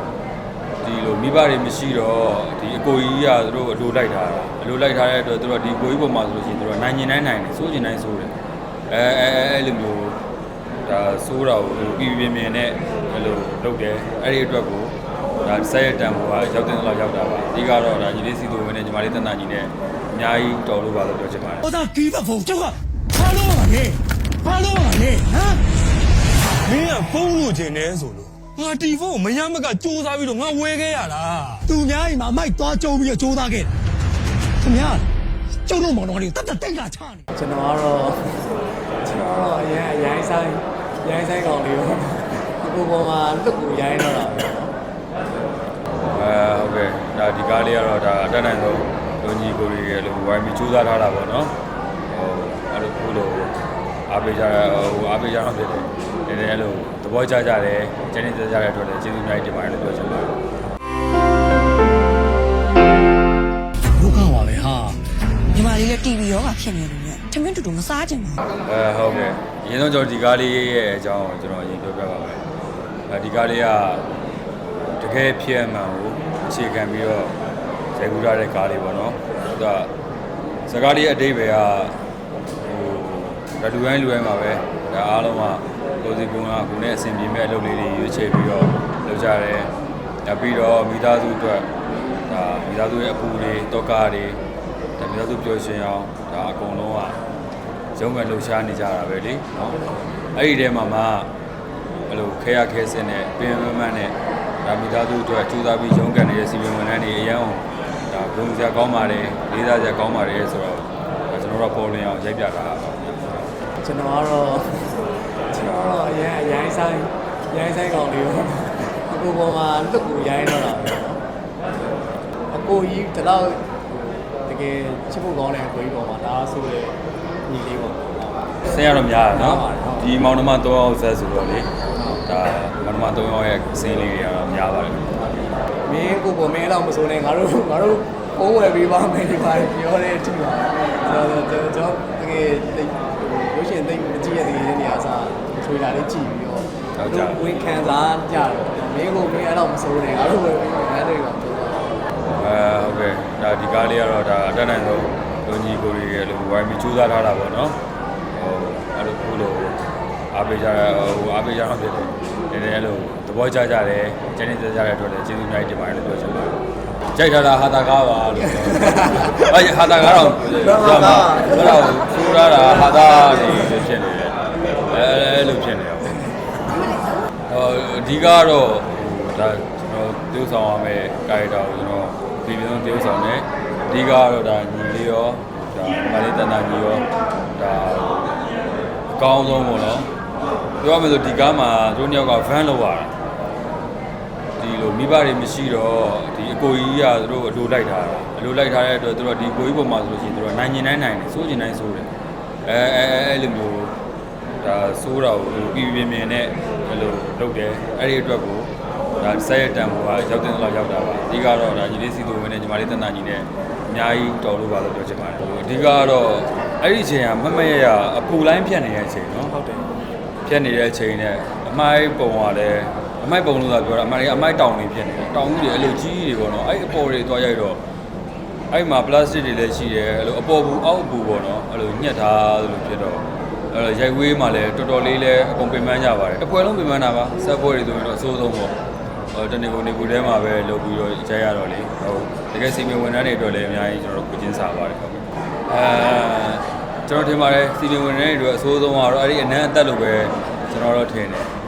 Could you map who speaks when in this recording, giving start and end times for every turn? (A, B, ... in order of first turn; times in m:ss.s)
0:00.8-0:08.3 A
0:08.9-0:10.2 A
0:10.8-0:21.7 A
0:21.6-0:25.6 B
0:26.6-0:31.7 C
0:31.7-0:33.7 B
0:34.6-0:35.1 B
0:35.6-0:37.2 B
0:37.3-0:38.5 D
0:39.0-0:44.7 D
0:46.1-0:51.5 A
0:52.1-0:53.5 A
0:54.1-1:00.3 A
1:03.9-1:05.0 B
1:05.5-1:08.4 E
1:08.6-1:12.4 A
1:13.1-1:14.0 A
1:15.0-1:17.3 A
1:17.9-1:19.9 A
1:20.7-1:22.0 A
1:22.6-1:29.7 A
1:30.2-1:31.7 A
1:32.3-1:34.4 A
1:35.0-1:37.2 A
1:38.0-1:39.5 A
1:40.4-1:41.3 A
1:42.1-1:53.0 A
1:53.8-2:01.2 D
2:02.5-2:08.5 D
2:08.6-2:11.7 A
2:09.3-2:10.2 D
2:12.2-2:15.1 A
2:15.8-2:32.0 D
2:27.0-2:27.4 A
2:32.4-2:37.8 A
2:38.3-2:39.8 A
2:40.3-2:46.6 A
2:47.1-2:54.4 A
2:48.8-2:49.4 D
2:50.6-2:51.9 D
2:54.9-2:56.2 A
2:57.5-3:07.0 A
3:07.6-3:08.3 A
3:09.1-3:10.1 A
3:10.8-3:13.1 A
3:14.6-3:22.1 A
3:22.6-3:23.9 A
3:24.6-3:39.6 A
3:39.6-3:39.8 D
3:40.4-3:47.8 A
3:48.7-3:58.7 A
3:59.3-4:11.5 A